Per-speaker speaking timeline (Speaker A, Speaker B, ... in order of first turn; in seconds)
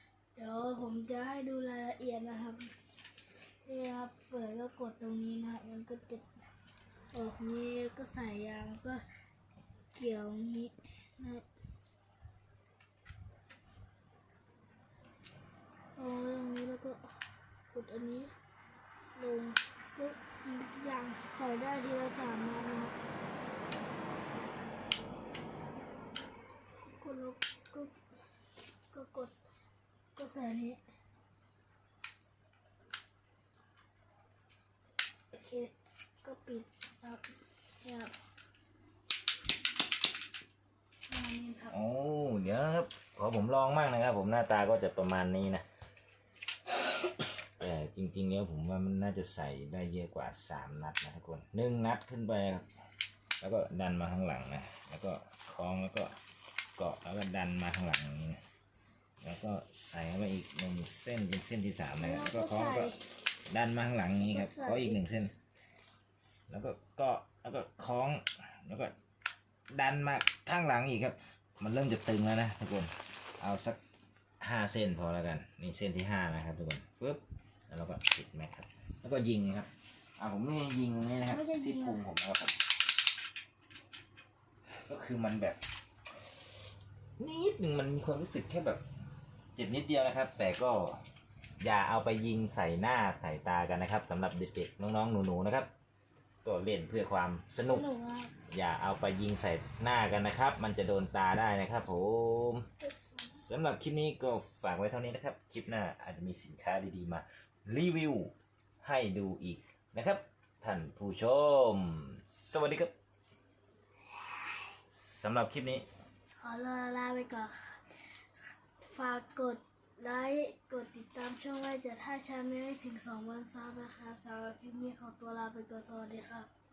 Speaker A: 0.4-2.7, 3.6-6.3, 7.1-9.0, 9.9-11.4, 16.0-17.0, 17.7-18.3, 19.1-23.0, 27.0-27.9, 28.9-29.4, 30.2-30.8, 35.3-38.1, 41.1-41.8, 62.0-63.0, 64.2-65.0, 81.2-82.0, 97.6-98.3, 102.9-103.3, 116.3-117.8, 118.9-126.5
Speaker B: 41.7-45.6, 47.6-52.7, 53.4-56.1, 56.8-58.4, 59.2-62.9, 63.5-65.3, 66.5-68.9, 69.7-73.8, 74.4-82.6, 84.9-85.6, 87.2-88.8, 89.6-91.0, 91.6-95.7, 96.4-97.9, 98.5-102.7, 103.2-112.9, 114.9-115.9